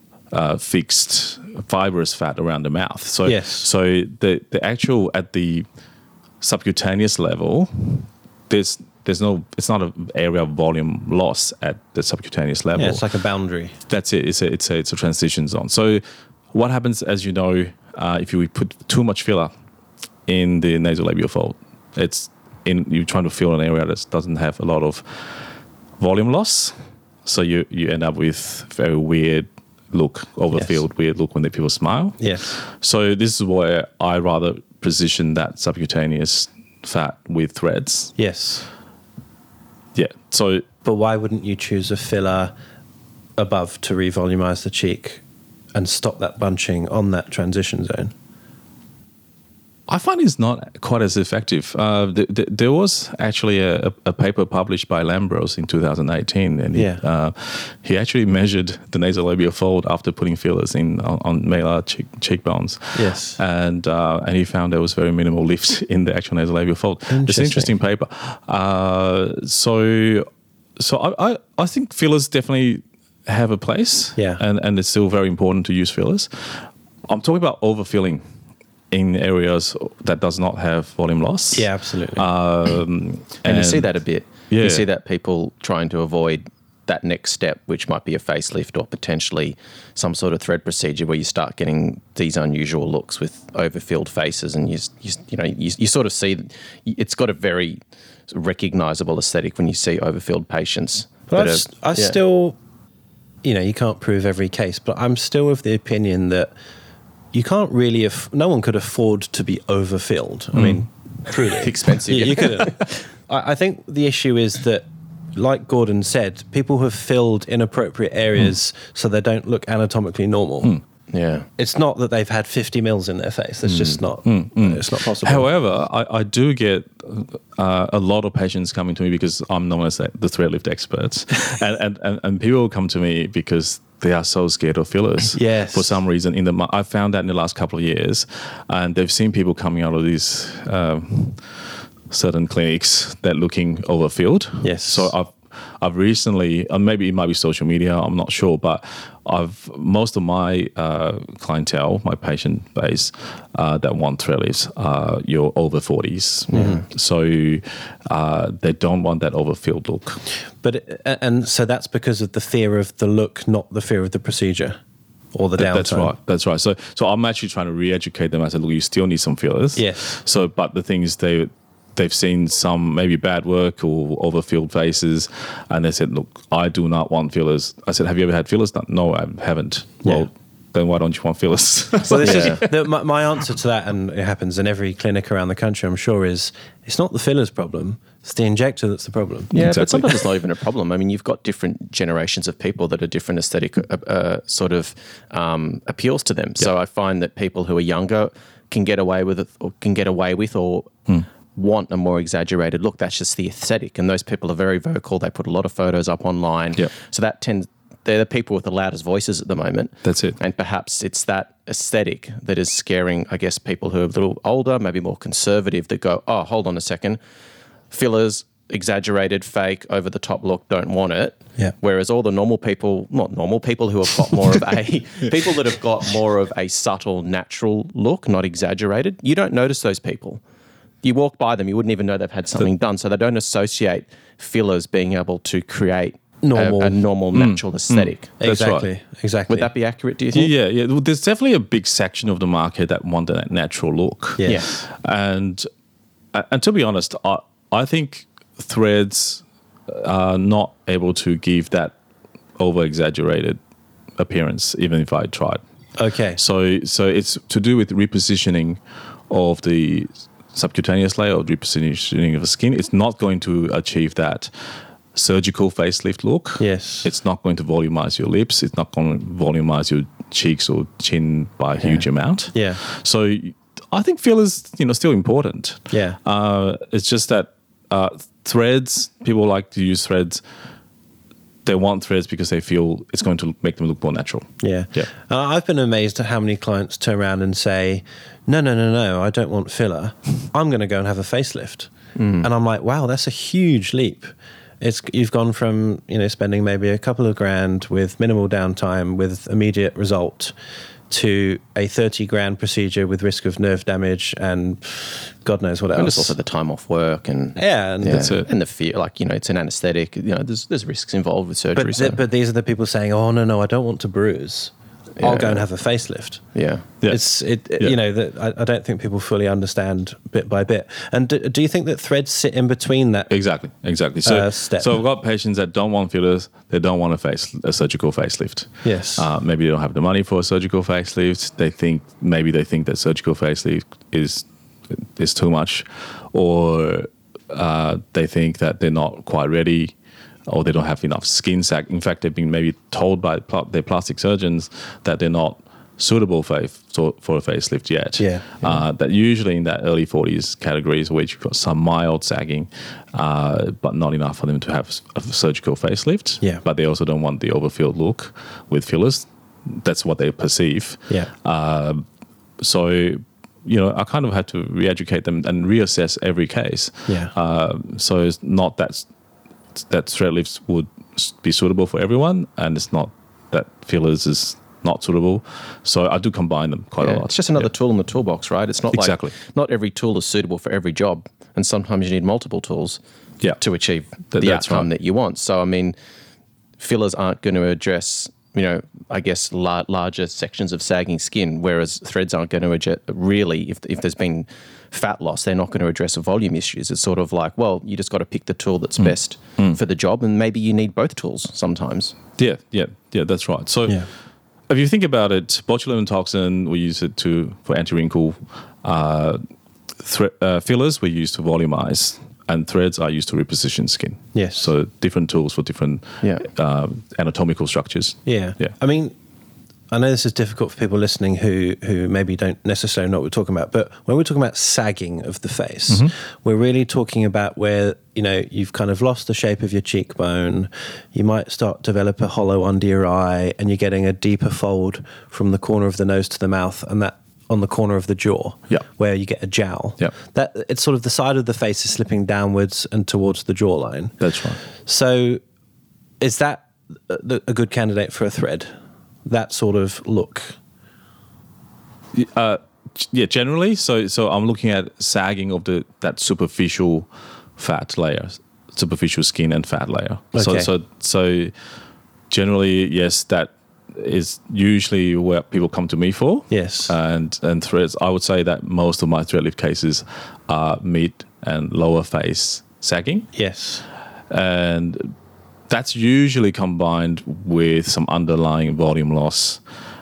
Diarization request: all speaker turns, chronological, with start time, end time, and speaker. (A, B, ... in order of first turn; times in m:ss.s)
0:00.3-0:05.7 A
0:03.2-0:03.7 B
0:06.4-0:13.0 A
0:12.8-0:13.8 B
0:13.9-0:16.0 A
0:16.5-0:19.5 A
0:20.3-0:25.3 A
0:26.0-0:26.7 A
0:27.2-0:38.1 A
0:32.2-0:32.5 B
0:38.2-0:38.7 B
0:40.0-0:40.7 A
0:40.8-0:42.5 B
0:43.4-0:45.2 B
0:45.8-0:48.1 B
0:49.9-1:10.3 A
0:56.7-0:57.0 B
1:03.0-1:03.4 B
1:07.1-1:07.7 B
1:10.8-1:18.2 A
1:18.9-1:23.9 A
1:21.5-1:22.2 B
1:23.5-1:42.2 C
1:24.5-1:24.8 A
1:41.3-1:42.6 B
1:43.4-1:46.5 B
1:47.3-2:00.8 B
1:50.6-1:50.8 A
1:51.5-1:52.9 C
2:01.1-2:01.5 C
2:01.6-2:05.5 B
2:04.2-2:21.4 A
2:15.4-2:15.9 B
2:22.1-2:40.2 A
2:24.6-2:25.1 B
2:36.5-2:36.8 B
2:40.6-2:44.8 B
2:45.3-2:46.1 B
2:45.6-3:02.7 A
2:49.8-2:50.1 B
3:02.1-3:09.5 B
3:02.2-3:02.7 C
3:09.5-3:37.2 C
3:09.6-3:10.2 A
3:30.0-3:30.4 A
3:37.9-3:50.4 C
3:51.0-3:58.3 C
3:56.4-3:57.0 B
3:57.3-3:58.9 A
3:58.4-3:59.7 B
3:59.5-4:00.5 C
4:00.3-4:05.7 A
4:04.4-4:04.6 B
4:04.4-4:04.8 C
4:06.3-4:12.0 A
4:12.6-4:13.6 A
4:14.2-4:15.6 A
4:16.0-4:16.4 B
4:16.4-4:24.5 A
4:25.2-4:40.4 A
4:26.6-4:27.1 B
4:31.8-4:32.8 B
4:35.9-4:36.2 B
4:41.6-4:45.1 A
4:44.6-4:51.9 B
4:52.2-4:52.5 C
4:52.4-5:00.5 B
5:01.1-5:06.3 B
5:06.0-5:12.2 C
5:07.6-5:08.3 B
5:08.1-5:08.5 A
5:11.8-5:16.4 B
5:15.2-5:15.6 C
5:16.6-5:16.9 C
5:17.1-5:23.3 B
5:23.3-5:40.0 A
5:24.2-5:25.0 B
5:28.8-5:29.3 B
5:40.5-6:02.0 A
5:48.2-5:48.8 B
6:02.6-6:09.1 A
6:07.1-6:07.3 B
6:09.8-6:17.7 A
6:17.0-6:23.0 C
6:18.9-6:19.3 A
6:23.6-6:26.0 C
6:24.3-6:24.9 A
6:26.8-6:42.2 C
6:39.0-6:39.8 A
6:42.4-6:44.0 A
6:44.7-6:49.4 A
6:50.0-6:58.7 A
6:54.3-6:54.7 B
6:56.2-6:56.5 C
6:58.3-6:59.2 B
6:59.9-7:24.2 B
7:24.2-7:24.6 A
7:24.8-7:25.4 B
7:26.2-7:28.7 B
7:29.3-7:30.6 B
7:32.1-7:41.5 A
7:40.3-7:40.7 B
7:42.3-7:53.3 A
7:46.5-7:46.9 B
7:53.3-7:53.8 B
7:54.3-7:55.1 A
7:55.7-7:59.6 A